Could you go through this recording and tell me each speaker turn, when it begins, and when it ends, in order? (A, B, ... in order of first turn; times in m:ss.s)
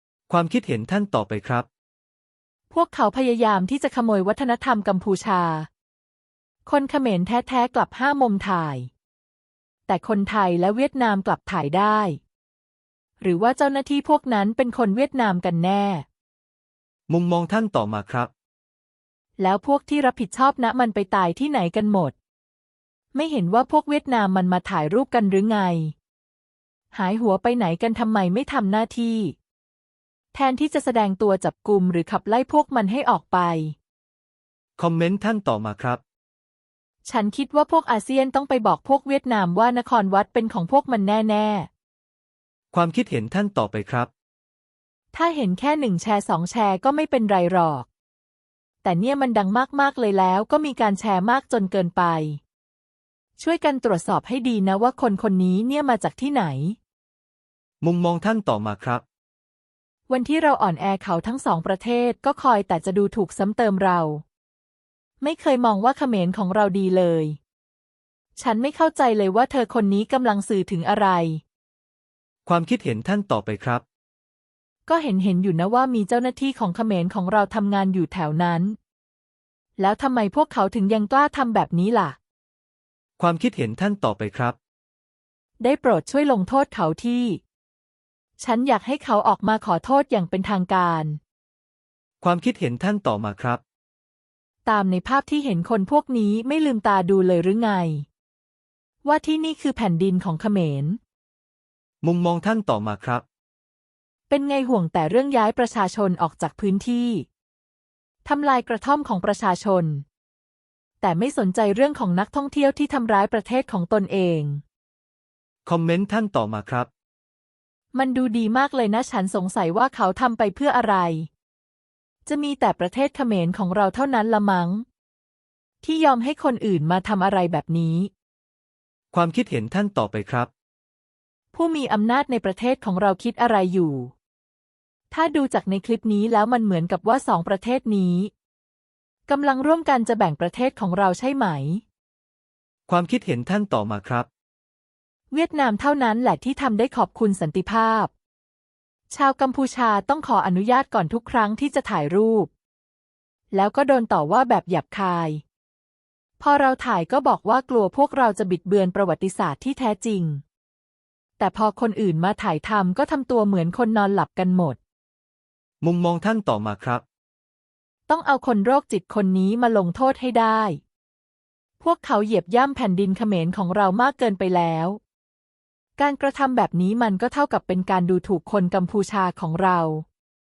0:00.3-0:01.7 A
0:02.7-0:05.7 B
0:06.7-0:08.9 B
0:09.9-0:12.2 B
0:13.2-0:16.0 B
0:17.1-0:18.3 A
0:19.4-0:22.2 B
0:23.1-0:25.9 B
0:26.9-0:29.4 B
0:30.3-0:33.8 B
0:34.8-0:36.0 A
0:37.0-0:41.7 B
0:42.7-0:44.1 A
0:45.1-0:47.9 B
0:48.8-0:52.4 B
0:53.4-0:56.8 B
0:57.8-0:59.0 A
1:00.1-1:04.2 B
1:05.2-1:07.4 B
1:08.4-1:11.4 B
1:12.5-1:13.8 A
1:14.9-1:18.8 B
1:19.8-1:22.2 B
1:23.2-1:24.6 A
1:25.6-1:27.4 B
1:28.4-1:31.2 B
1:32.2-1:33.6 A
1:34.6-1:38.1 B
1:39.0-1:41.0 B
1:42.0-1:43.2 A
1:44.3-1:47.3 B
1:48.2-1:50.0 B
1:51.0-1:54.6 B
1:55.7-1:56.9 A
1:57.9-2:01.3 B
2:02.3-2:04.8 B
2:05.8-2:08.1 B
2:09.1-2:10.5 A
2:11.5-2:14.1 B
2:15.1-2:18.3 B
2:19.3-2:21.8 B
2:22.9-2:24.3 A
2:25.3-2:28.1 B
2:29.1-2:32.5 B
2:33.5-2:35.4 B
2:36.4-2:40.4 B
2:41.4-2:44.8 B
2:45.8-2:47.0 A
2:48.1-2:50.8 B
2:51.8-2:55.0 B
2:56.0-3:00.0 B